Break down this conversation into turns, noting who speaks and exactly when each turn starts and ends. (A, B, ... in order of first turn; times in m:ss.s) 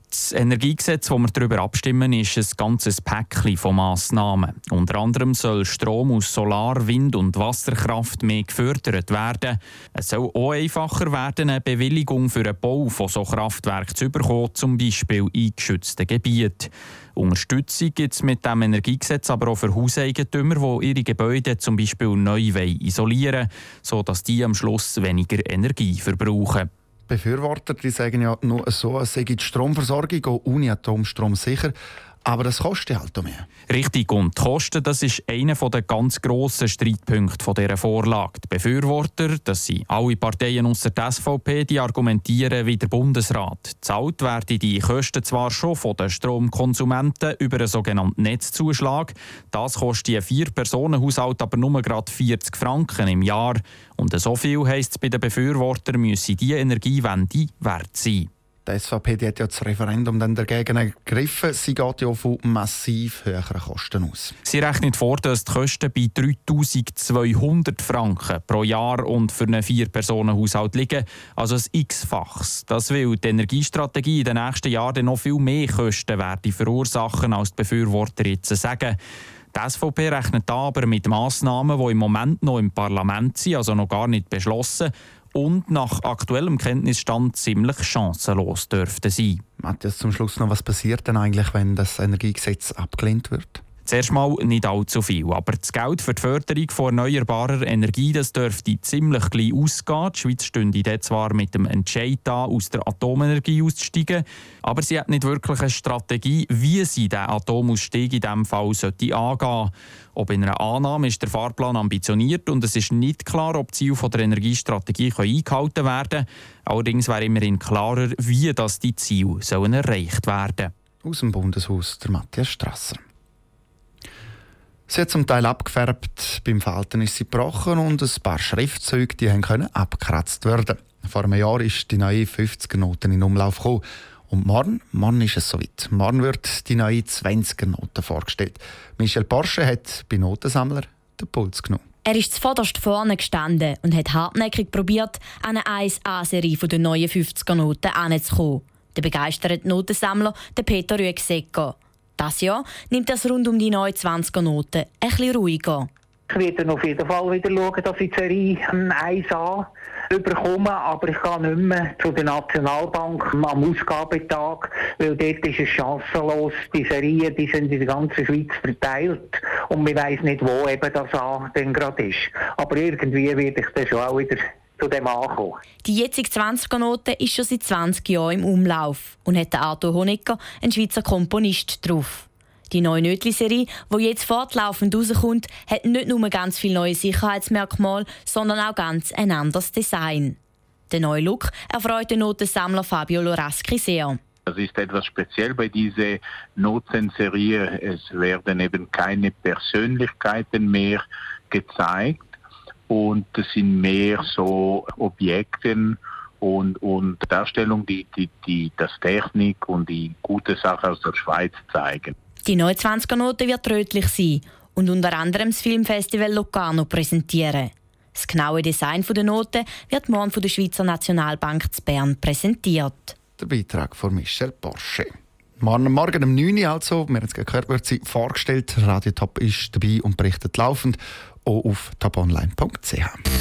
0:00.1-0:26.7 A
0:27.1-0:33.5 B
0:33.7-0:58.3 A
0:58.6-1:04.4 B
1:04.5-1:19.0 A
1:19.5-1:29.4 A
1:29.6-1:33.6 B
1:33.9-2:00.7 A
2:01.0-2:03.0 B
2:04.9-2:21.8 B
2:22.0-2:35.9 C
2:36.4-2:39.6 D
2:40.2-2:55.5 D
2:55.8-3:10.4 C
3:10.9-3:14.2 C
3:14.5-3:22.2 E
3:22.9-3:32.1 E
3:32.4-3:43.2 C
3:43.4-3:53.2 B